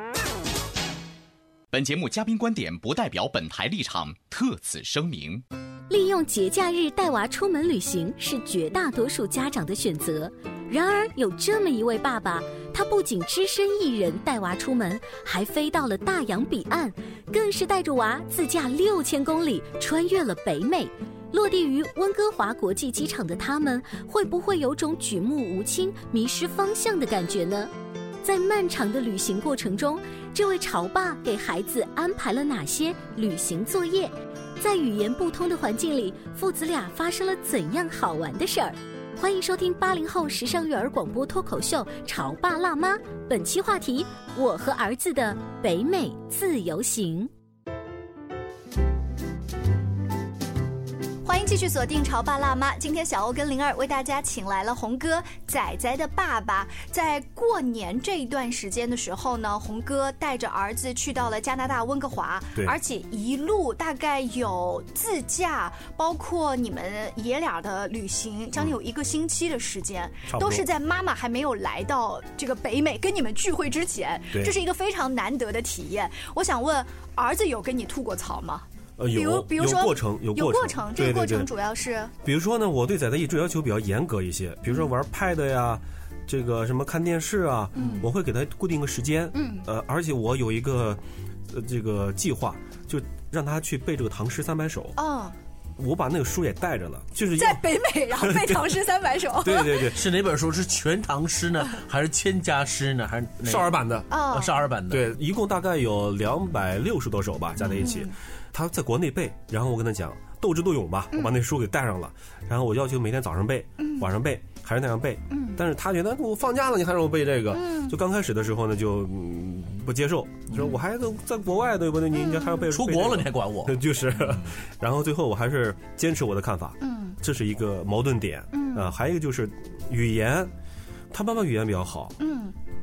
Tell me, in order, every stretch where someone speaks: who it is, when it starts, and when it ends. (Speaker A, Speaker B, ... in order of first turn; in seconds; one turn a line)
Speaker A: 1.7-5.4
Speaker B: 5.9-27.7
Speaker B: 28.2-47.3
Speaker C: 51.2-82.1
Speaker D: 70.3-70.7
Speaker D: 79.0-81.5
Speaker D: 82.2-95.0
Speaker C: 87.8-88.1
Speaker C: 89.3-89.7
Speaker C: 95.0-95.4
Speaker D: 95.8-97.6
Speaker C: 97.4-99.9
Speaker D: 98.2-98.5
Speaker D: 99.4-100.0
Speaker E: 99.9-105.0
Speaker D: 103.4-104.2
Speaker C: 104.1-104.5
Speaker D: 104.9-130.5
Speaker C: 107.6-108.1
Speaker C: 113.8-114.1
Speaker C: 115.3-115.6
Speaker C: 117.5-118.0
Speaker C: 122.1-122.6
Speaker E: 122.7-124.5
Speaker C: 126.8-127.2
Speaker C: 128.5-128.9
Speaker D: 131.1-132.2
Speaker C: 132.2-132.6